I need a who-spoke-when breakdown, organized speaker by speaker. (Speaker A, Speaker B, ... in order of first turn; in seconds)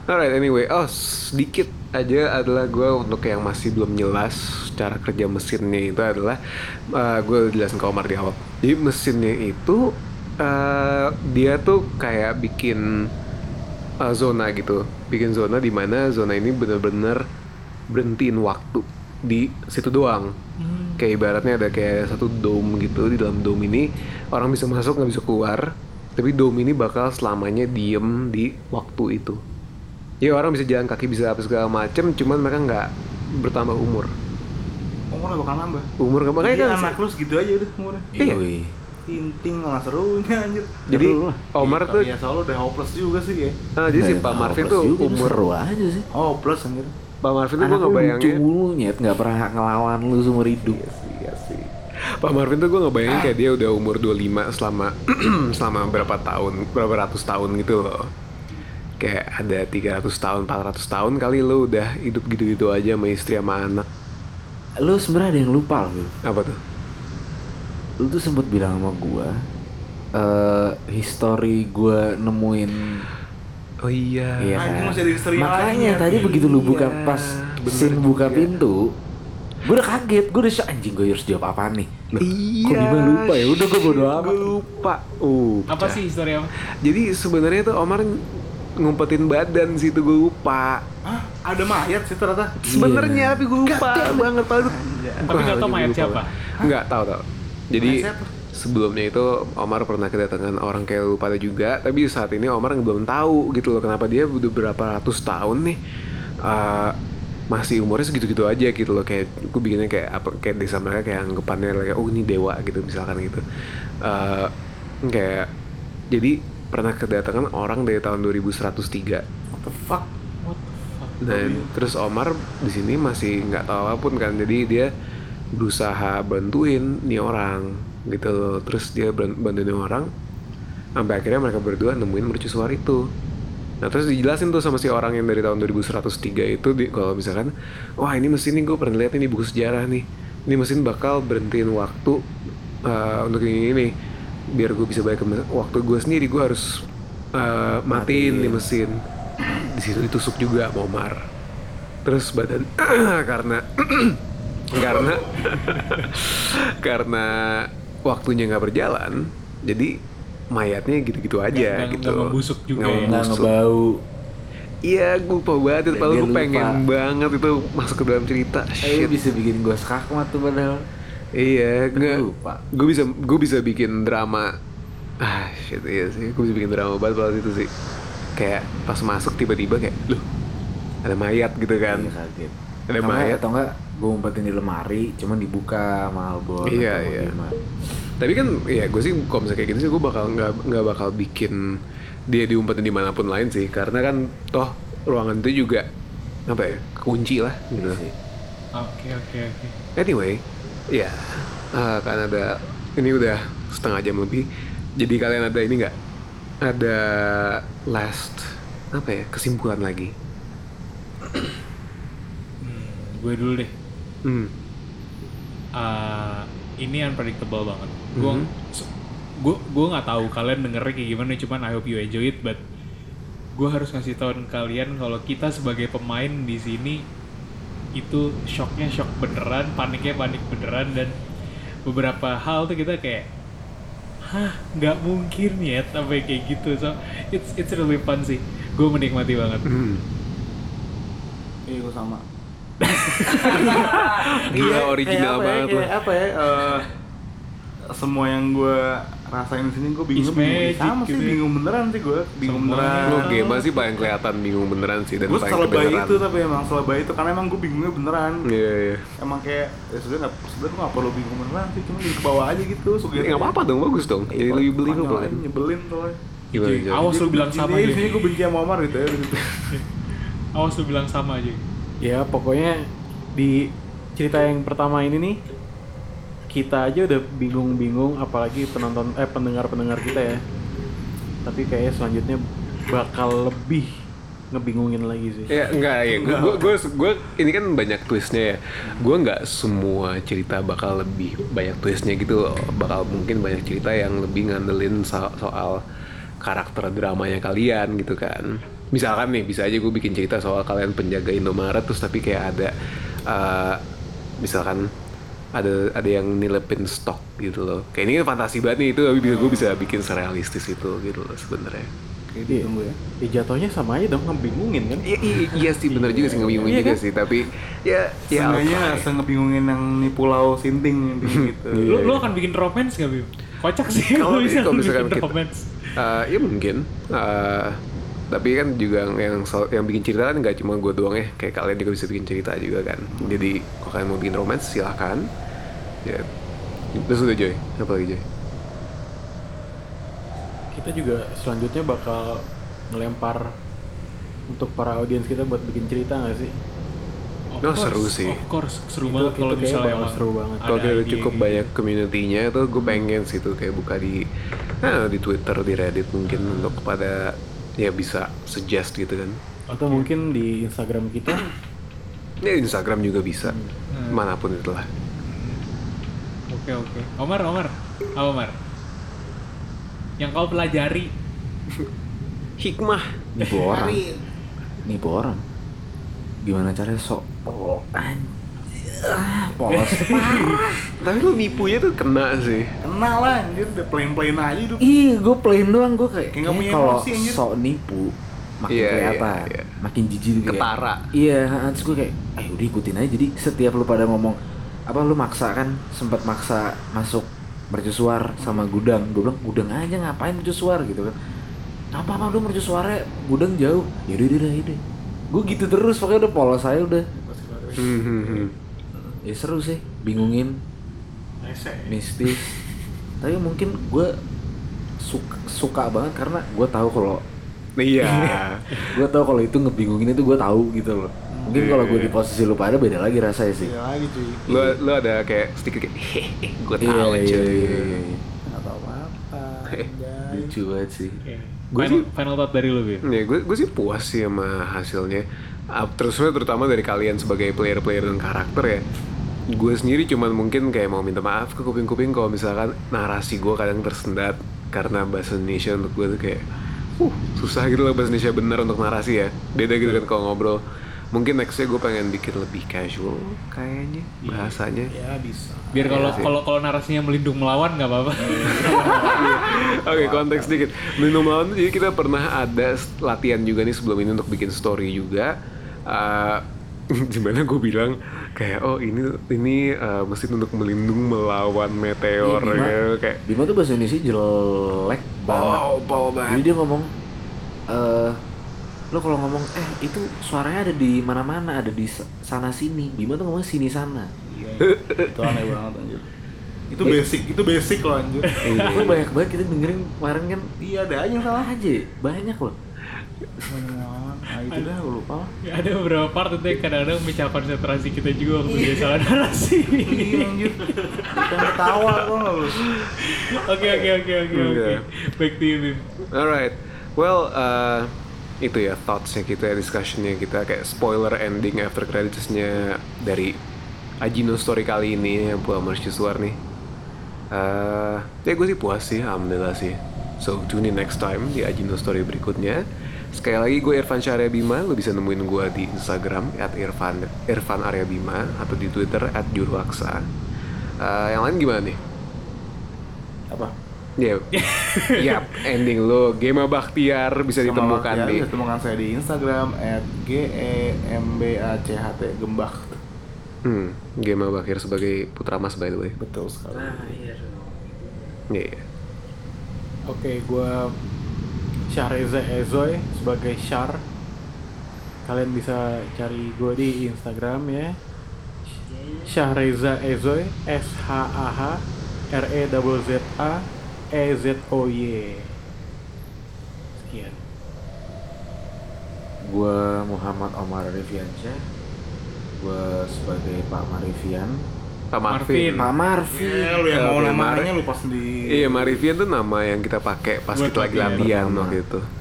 Speaker A: 0.1-6.4, 7.0-9.8, 10.4-12.8, 14.0-17.2, 17.9-20.3, 21.0-25.6, 26.2-29.4, 30.2-34.1, 36.0-36.9, 40.9-42.1, 43.8-45.4, 47.2-48.4, 52.2-58.1, 59.0-63.8, 66.2-66.6, 73.8-74.7, 76.2-78.5, 82.2-86.0, 86.8-88.2, 88.8-90.8, 92.7-105.8, 106.4-106.9, 107.5-113.4, 114.0-114.5, 115.1-115.5, 116.1-119.2, 121.2-124.9, 125.5-130.1, 131.0-133.0, 133.8-142.2, 142.9-143.9, 144.5-146.8, 147.3-148.9, 149.6-151.2, 152.0-154.2, 154.7-159.9, 160.5-163.5, 164.8-169.1, 171.4-172.2, 172.7-174.5, 175.2-177.7, 178.4-180.2, 181.0-182.1, 182.9-183.4, 186.7-187.3, 188.2-191.7, 192.3-195.8, 196.5-198.0, 200.0-200.4, 200.9-204.4, 205.0-205.9, 206.6-210.1, 214.2-214.5, 218.2-218.5, 239.7-240.0, 243.3-245.9, 253.1-256.2, 258.4-259.0, 263.2-265.4, 266.5-267.2, 285.5-295.8, 296.4-302.7, 303.3-303.8, 304.4-304.8, 305.6-311.9, 315.0-319.1, 321.3-322.3, 323.9-325.3, 325.9-335.2, 336.9-338.2, 347.6-348.4, 350.6-354.2, 354.8-359.4, 362.4-363.6, 364.1-364.9, 372.6-373.1, 381.0-382.7, 388.7-389.7, 390.4-391.0, 407.8-408.5, 417.8-418.6, 421.5-422.1, 424.5-428.0, 431.7-432.1, 433.0-438.8, 439.5-446.4, 447.0-450.6, 451.1-454.9, 455.8-456.4, 459.0-465.3, 465.9-473.2, 475.3-476.4, 484.6-485.1, 488.4-489.0, 504.3-504.8, 506.1-513.4, 514.0-516.4, 517.3-522.6, 523.1-530.1, 530.8-531.8, 534.0-534.3, 534.9-538.2, 543.5-546.0, 548.3-548.6, 574.9-575.7, 576.7-577.5, 578.3-581.8
Speaker B: 20.6-21.1, 85.7-86.5, 95.2-96.3, 120.4-121.2, 161.5-163.1, 198.8-199.8, 212.6-213.7, 215.8-218.9, 219.4-222.6, 223.6-227.0, 228.0-231.1, 231.8-233.2, 234.3-239.6, 242.8-243.9, 250.1-251.4, 252.4-253.4, 266.5-268.4, 270.6-271.6, 316.7-316.9, 321.9-325.7, 347.5-351.7, 356.3-356.8, 359.7-360.2, 363.9-364.2, 365.2-365.6, 366.5-368.5, 370.2-371.1, 379.7-380.5, 431.2-433.0, 455.7-458.9, 488.3-488.9, 494.5-494.7, 495.4-501.9, 502.7-505.9, 534.3-535.2, 575.1-575.6, 580.3-581.1
Speaker C: 35.1-35.9, 36.4-38.1, 39.1-40.8, 41.6-43.6, 46.1-46.9, 50.6-51.7, 53.1-53.3, 74.6-76.5, 91.0-92.5, 93.7-95.3, 97.8-98.3, 119.5-120.1, 121.2-121.7, 241.7-242.2, 243.3-246.9, 247.9-253.8, 255.3-258.5, 259.2-263.6, 264.3-266.2, 267.2-269.6, 286.0-286.8, 312.3-313.0, 318.3-321.8, 333.1-333.5, 373.5-374.2, 381.2-381.8, 382.8-384.8, 386.3-387.4, 398.4-398.6, 407.2-408.4, 421.3-421.6, 423.6-424.8, 428.4-430.5, 458.5-459.1, 484.2-486.1, 486.7-488.4, 490.6-491.5, 493.4-495.3, 499.9-502.7, 537.4-542.8, 546.0-547.0, 576.1-578.8
Speaker D: 38.1-38.7, 40.9-41.4, 43.9-46.0, 47.6-50.8, 64.8-66.1, 68.0-69.3, 70.2-73.0, 74.4-78.8, 79.6-84.6, 92.6-93.5, 147.9-148.7, 163.0-164.0, 165.9-166.8, 168.8-170.8, 171.9-172.6, 181.9-187.5, 197.8-198.1, 373.4-374.0, 374.9-375.4, 376.4-378.3, 379.0-380.9, 384.8-394.4, 394.9-401.1, 401.9-404.8, 405.3-407.0, 409.2-410.6, 411.9-412.6, 413.2-414.1, 415.0-417.2, 418.9-423.7, 426.8-428.2, 430.3-431.2, 458.8-460.6, 472.2-475.7, 476.2-476.9, 477.7-478.2, 478.9-484.1, 488.6-490.5, 491.3-492.6, 546.5-548.2, 558.7-559.0, 569.3-571.4, 572.4-574.4, 575.6-576.6, 580.9-581.6
Speaker E: 272.0-272.8, 273.3-273.6, 274.2-275.4, 276.5-280.4, 281.4-283.9, 284.5-285.6, 313.2-317.0, 340.7-342.4, 342.9-343.4, 344.5-346.5, 349.0-350.6, 359.7-361.5, 363.4-363.7, 407.3-407.7, 411.4-412.0, 454.9-456.3, 458.3-459.4, 549.9-550.5, 551.7-553.8, 555.0-557.7, 559.0-561.5, 562.1-563.3, 564.0-565.3, 566.8-567.2